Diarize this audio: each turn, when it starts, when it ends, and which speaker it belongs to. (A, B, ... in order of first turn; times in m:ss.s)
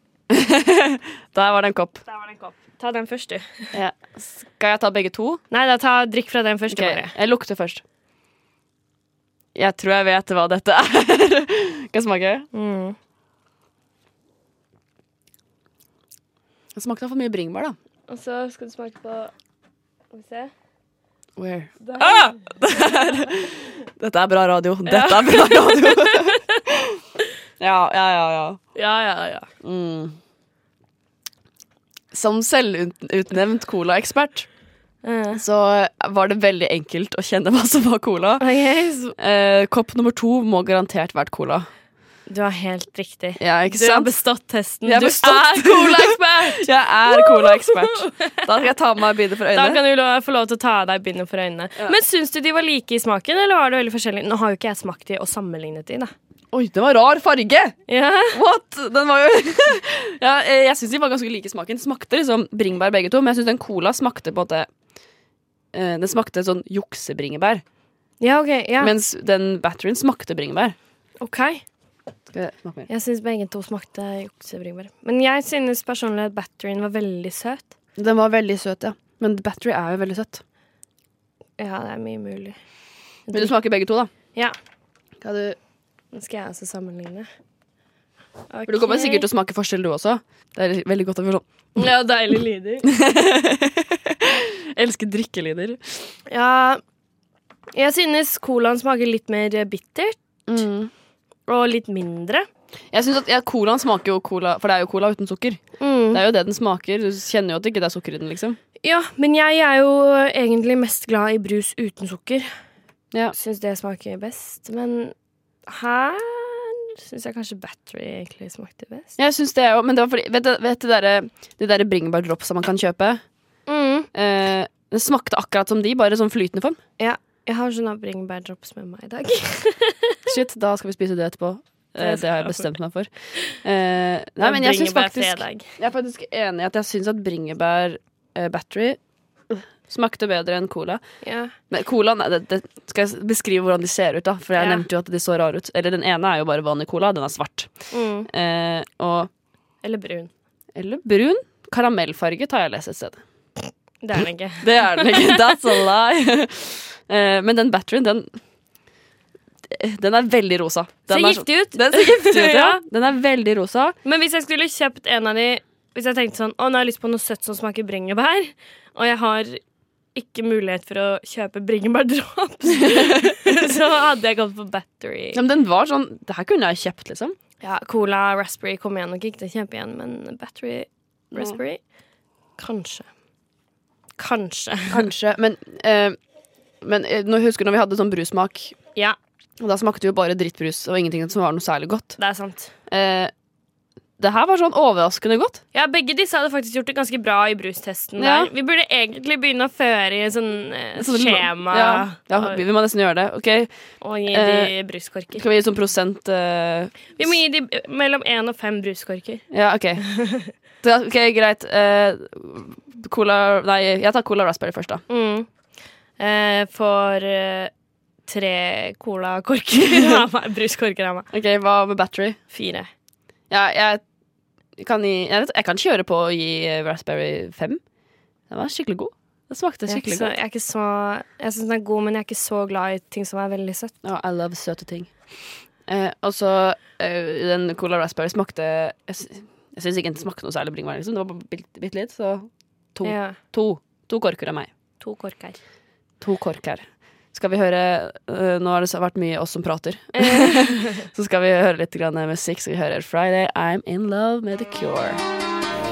0:00.3-0:02.0 A
0:02.1-0:03.7 B
0:03.7-0:05.4 A
0:05.5-0:07.1 B
0:06.7-0:07.8 A
0:09.5-0:12.5 A
0:12.5-0:13.0 B
0:16.7-0:17.8 A
0:18.1-0:19.3 B
0:20.1-0:20.5 B
0:21.4-0:26.6 A
0:21.8-0:22.4 B
0:24.8-0:26.2 B
0:27.6-0:28.7 A
0:28.7-0:29.5 B
0:29.6-0:30.2 A
0:32.1-0:34.6 A
0:35.0-0:35.4 B
0:35.4-0:38.5 A
0:38.4-0:39.1 B
0:39.1-0:41.7 A
0:42.3-0:48.3 B
0:43.4-0:44.2 A
0:44.8-0:49.8 A
0:49.5-0:56.1 B
0:56.5-1:04.7 A
0:57.9-0:58.4 B
1:05.7-1:07.6 A
1:08.2-1:08.9 B
1:08.8-1:10.8 A
1:11.2-1:11.6 B
1:12.3-1:12.9 A
1:12.9-1:17.7 B
1:18.0-1:20.4 A
1:21.6-1:22.6 B
1:23.2-1:23.5 B
1:23.3-1:24.1 A
1:24.2-1:24.5 B
1:25.2-1:25.6 A
1:26.1-1:27.3 B
1:28.5-1:29.2 B
1:28.7-1:31.4 A
1:31.8-1:32.9 B
1:32.8-1:36.1 A
1:36.3-1:36.8 B
1:37.7-1:40.2 B
1:40.5-1:40.9 A
1:41.5-1:42.4 B
1:42.9-1:48.6 A
1:45.8-1:46.2 B
1:48.8-1:52.5 B
1:53.3-1:55.1 B
1:55.7-1:59.1 B
1:59.2-2:03.3 A
2:03.6-2:04.1 B
2:04.1-2:06.8 A
2:07.0-2:10.2 B
2:10.3-2:21.0 A
2:12.0-2:12.7 B
2:14.4-2:15.8 B
2:21.2-2:21.5 B
2:21.6-2:29.3 A
2:24.6-2:24.8 B
2:27.9-2:28.3 B
2:29.8-2:30.3 B
2:30.7-2:33.2 A
2:34.0-2:35.4 B
2:34.6-2:38.4 A
2:39.6-2:44.0 A
2:41.1-2:42.8 B
2:44.0-2:49.6 B
2:50.1-2:55.4 B
2:55.3-2:57.4 A
2:57.6-3:01.9 B
3:01.3-3:01.6 A
3:02.6-3:03.1 B
3:04.2-3:05.0 B
3:04.9-3:06.2 A
3:06.8-3:08.8 A
3:09.6-3:12.2 A
3:12.2-3:12.7 B
3:12.8-3:13.3 A
3:14.2-3:15.6 A
3:15.7-3:22.6 B
3:18.2-3:18.5 A
3:21.0-3:24.8 A
3:24.0-3:25.4 B
3:25.3-3:27.4 A
3:27.1-3:29.4 B
3:29.5-3:35.0 A
3:30.0-3:30.5 B
3:35.1-3:37.7 B
3:38.2-3:41.3 B
3:39.9-3:40.2 A
3:41.3-3:42.4 A
3:42.5-3:42.9 B
3:43.5-3:44.0 A
3:44.8-3:47.8 A
3:48.5-3:50.3 A
3:49.9-3:53.9 B
3:54.0-4:04.7 A
4:03.0-4:03.4 B
4:05.0-4:05.6 B
4:06.2-4:15.2 A
4:10.2-4:11.0 B